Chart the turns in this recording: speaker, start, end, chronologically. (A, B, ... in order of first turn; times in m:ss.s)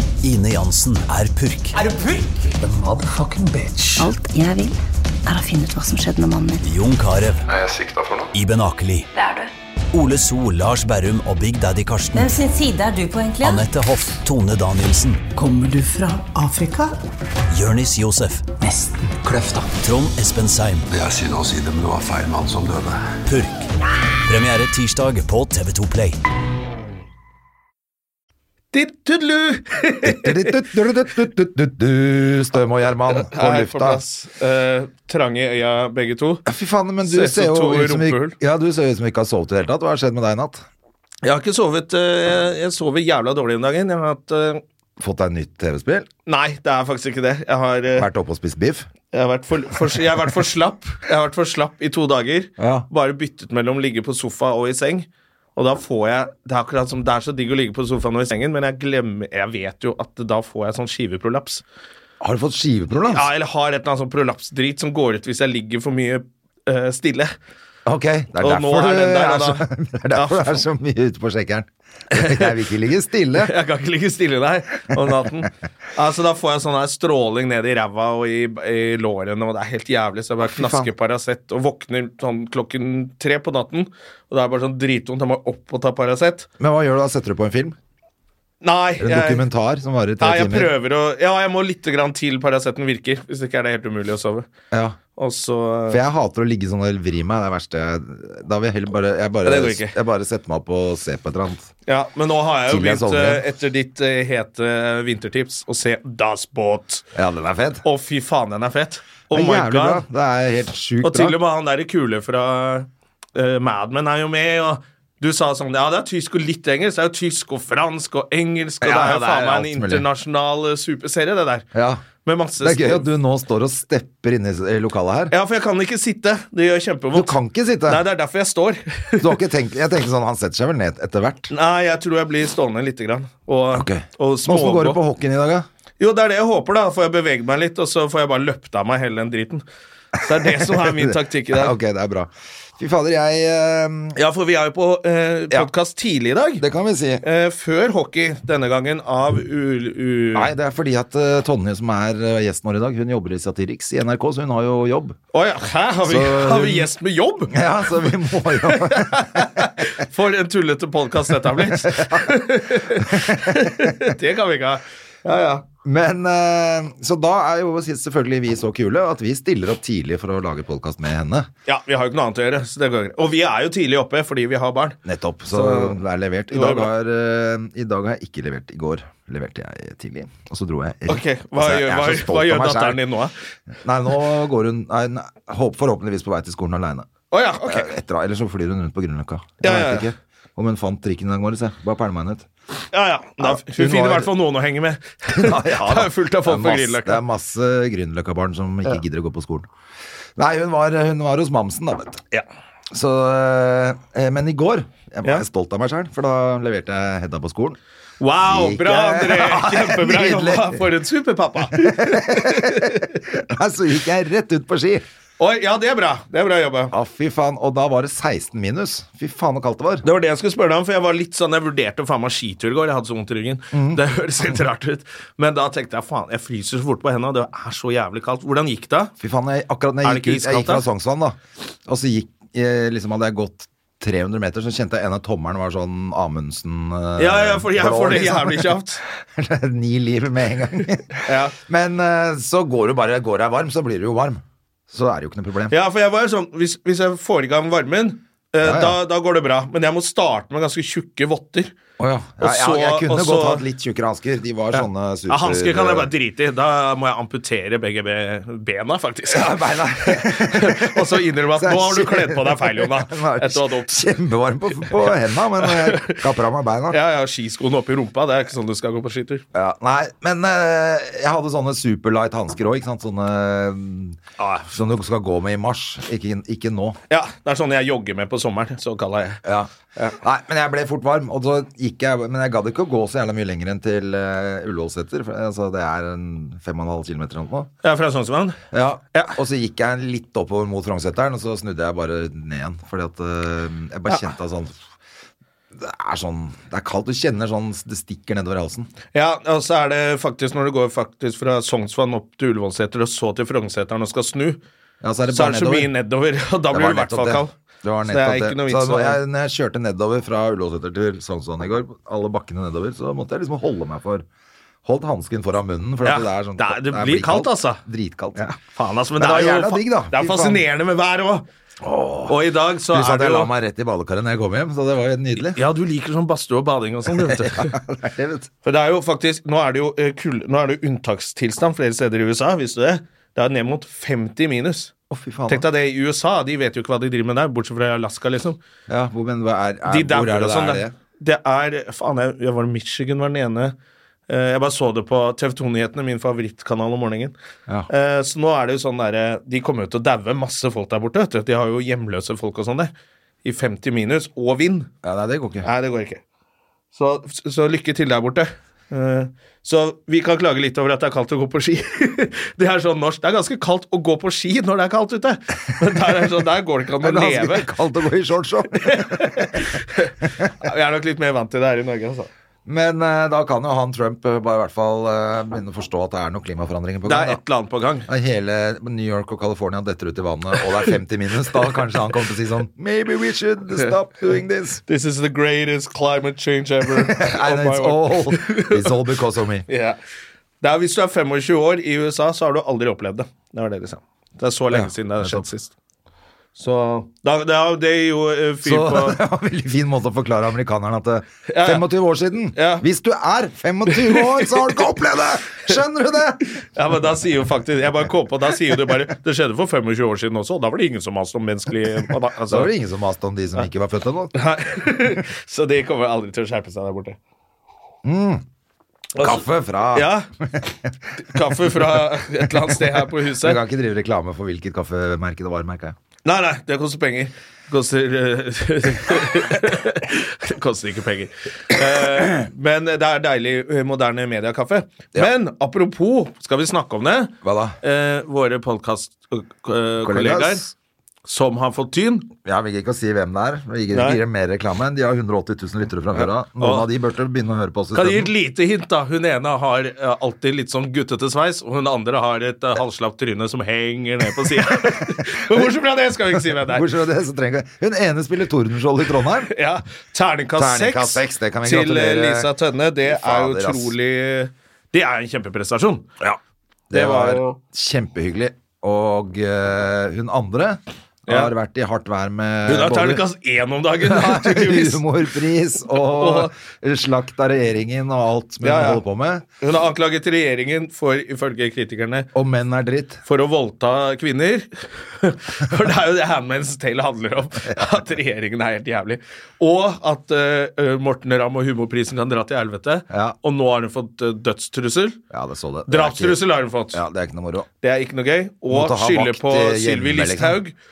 0:00.2-0:01.8 A
0:01.8-0:02.1 B
0:01.9-0:02.5 C
0:02.6-0:04.0 B
0:04.0-0:06.6 D
0:06.6-0:07.5 A
0:07.5-0:08.3 E
0:08.3-0:09.1 A
0:09.9-0:12.4 A
0:12.1-0:13.7 C
0:13.4-0:15.2 A
0:15.4-0:16.9 B
0:17.5-0:18.5 A
0:18.7-0:19.5 B
0:19.7-0:20.9 A
0:20.9-0:23.0 E
0:23.3-0:23.7 A
0:24.2-0:26.2 A
0:28.7-0:30.8 F
0:30.0-0:34.0 G
0:33.1-0:36.4 F
0:36.5-0:40.6 G
0:37.0-0:38.4 F
0:41.2-0:44.6 F
0:45.0-0:46.1 G
0:46.3-0:48.1 F
0:48.0-0:48.9 G
0:49.1-1:01.6 F
0:52.6-0:52.9 G
1:02.2-1:03.3 G
1:03.1-1:07.3 F
1:07.9-1:13.5 G
1:08.4-1:10.6 F
1:12.1-1:12.6 F
1:13.4-1:26.5 F
1:14.9-1:15.5 G
1:20.4-1:20.9 G
1:26.6-1:27.8 G
1:28.6-1:29.5 F
1:29.0-1:30.7 G
1:30.2-1:34.5 F
1:34.7-1:35.0 G
1:35.2-1:36.0 F
1:35.9-1:41.7 G
1:39.4-1:40.0 F
1:41.9-1:47.0 F
1:42.7-1:43.4 G
1:47.2-1:47.8 G
1:47.8-1:50.0 F
1:49.3-1:51.4 G
1:51.0-2:01.7 F
1:58.8-2:00.0 G
2:01.7-2:02.0 G
2:02.2-2:03.1 F
2:02.6-2:05.3 G
2:05.3-2:09.4 F
2:07.1-2:08.0 G
2:09.2-2:11.5 G
2:11.5-2:15.0 F
2:13.7-2:15.7 G
2:16.0-2:19.6 F
2:20.2-2:21.8 F
2:20.5-2:24.2 G
2:24.2-2:26.6 F
2:26.6-2:27.2 G
2:27.2-2:30.5 F
2:30.3-2:35.2 G
2:35.3-2:45.6 F
2:36.1-2:36.9 G
2:37.5-2:39.6 G
2:41.6-2:42.3 G
2:42.9-2:44.0 G
2:45.8-2:51.5 G
2:51.7-2:55.0 F
2:55.0-3:03.0 G
2:55.5-2:56.0 F
2:56.5-2:56.9 F
3:01.1-3:03.4 F
3:03.8-3:07.1 G
3:07.3-3:07.9 F
3:07.7-3:12.5 G
3:09.6-3:10.1 F
3:12.9-3:17.2 F
3:13.4-3:14.3 G
3:15.3-3:19.7 G
3:20.4-3:22.2 G
3:22.9-3:27.8 G
3:28.2-3:33.2 F
3:28.4-3:30.9 G
3:31.7-3:35.0 G
3:35.4-3:36.9 F
3:36.9-3:40.0 G
3:40.0-3:49.1 F
3:43.7-3:44.6 G
3:49.2-4:05.8 G
3:50.0-3:50.8 F
3:57.2-3:59.0 F
4:01.2-4:01.6 F
4:05.7-4:11.7 F
4:08.6-4:09.0 G
4:12.0-4:16.1 G
4:12.4-4:13.6 F
4:14.8-4:24.1 F
4:19.3-4:27.0 G
4:24.9-4:26.2 F
4:26.9-4:29.4 F
4:29.5-4:37.0 G
4:34.4-4:34.7 F
4:37.1-4:39.4 F
4:39.4-4:47.7 G
4:47.8-4:48.6 F
4:48.7-4:54.8 G
4:55.8-4:58.9 G
4:59.1-5:04.6 F
5:05.0-5:05.9 G
5:05.3-5:07.5 F
5:06.7-5:14.3 G
5:08.1-5:09.2 F
5:14.8-5:18.6 G
5:16.0-5:17.8 F
5:18.7-5:21.5 F
5:19.2-5:20.6 G
5:21.8-5:22.4 G
5:22.3-5:23.5 F
5:22.9-5:25.6 G
5:25.4-5:27.8 F
5:27.1-5:28.5 G
5:28.6-5:34.9 F
5:35.1-5:35.7 G
5:35.5-5:38.6 F
5:38.9-5:40.9 G
5:39.9-5:43.8 F
5:44.3-5:47.3 F
5:47.9-5:52.9 F
5:53.4-5:54.9 F
5:55.0-5:55.7 G
5:55.6-5:56.2 F
5:56.9-6:07.7 F
6:07.0-6:09.6 G
6:08.8-6:12.3 F
6:12.7-6:17.4 G
6:17.1-6:18.1 F
6:18.1-6:24.8 G
6:24.9-6:29.0 F
6:26.9-6:29.7 G
6:29.7-6:30.0 F
6:30.6-6:35.7 F
6:34.7-6:35.5 G
6:36.6-6:39.2 F
6:38.6-6:46.6 G
6:41.5-6:41.8 F
6:42.5-6:42.8 F
6:43.9-6:44.9 F
6:46.6-6:52.7 F
6:52.5-6:54.3 G
6:54.4-6:57.2 F
6:58.0-6:58.4 G
6:59.2-7:00.3 F
6:59.2-7:06.0 G
7:01.2-7:03.6 F
7:06.2-7:20.6 F
7:17.4-7:17.8 G
7:20.0-7:20.7 G
7:21.2-7:22.3 F
7:22.4-7:28.3 G
7:23.9-7:24.2 F
7:26.2-7:26.9 F
7:27.9-7:36.9 F
7:34.4-7:35.7 G
7:36.3-7:39.5 G
7:39.4-7:46.1 F
7:40.6-7:42.5 G
7:43.1-7:43.9 G
7:46.9-7:47.6 F
7:46.9-7:53.2 G
7:51.3-7:51.5 F
7:52.7-7:55.0 F
7:54.0-7:59.4 G
7:55.9-7:56.5 F
7:58.6-7:59.0 F
7:59.6-8:02.3 F
8:02.4-8:03.2 G
8:03.3-8:15.2 F
8:13.1-8:13.4 G
8:15.3-8:16.4 G
8:15.9-8:17.0 F
8:16.9-8:17.7 G
8:17.8-8:20.8 F
8:18.7-8:20.6 G